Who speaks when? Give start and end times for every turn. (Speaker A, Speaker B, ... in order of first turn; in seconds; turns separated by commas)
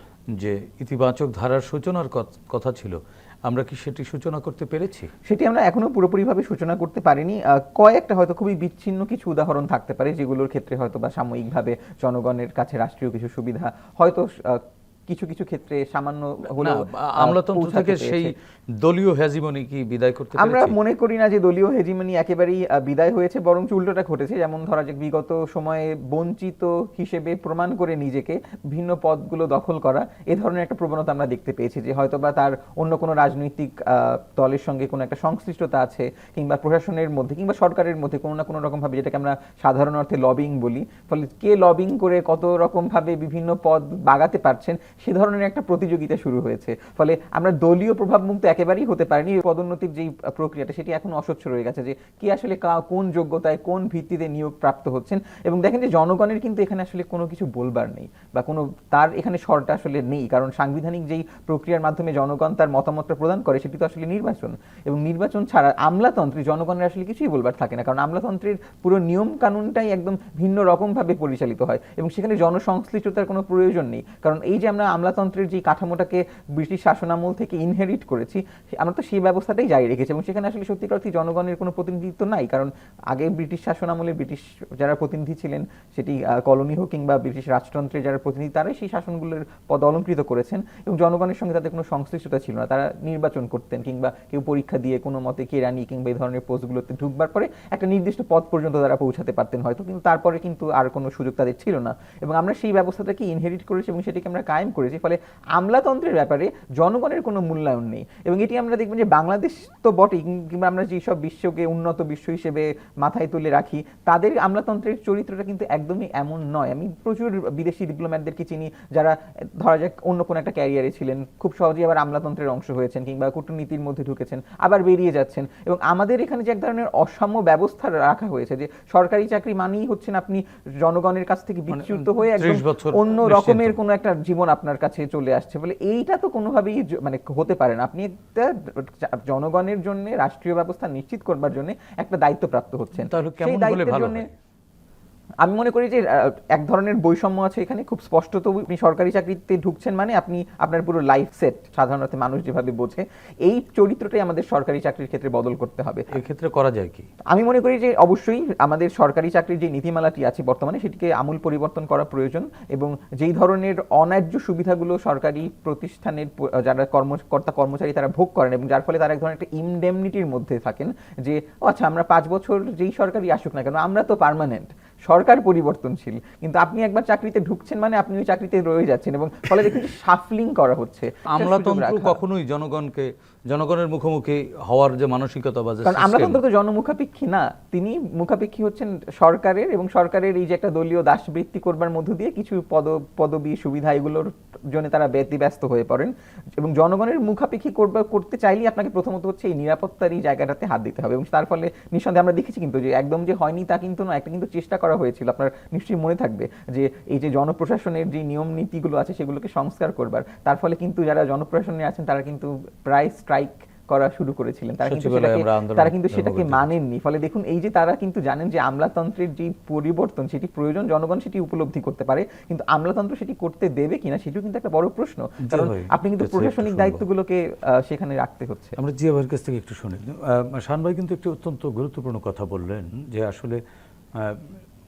Speaker A: 0.3-5.1, Speaker B: 5.2-18.3, Speaker A: 16.6-20.8, Speaker B: 20.4-144.2, Speaker A: 131.7-133.8, Speaker A: 143.0-144.3, Speaker B: 145.4-156.1, Speaker A: 156.1-157.1, Speaker B: 157.3-182.2, Speaker A: 181.3-186.4, Speaker B: 185.8-228.8, Speaker A: 214.8-216.7, Speaker A: 225.4-227.0, Speaker A: 228.8-233.6, Speaker A: 234.2-234.6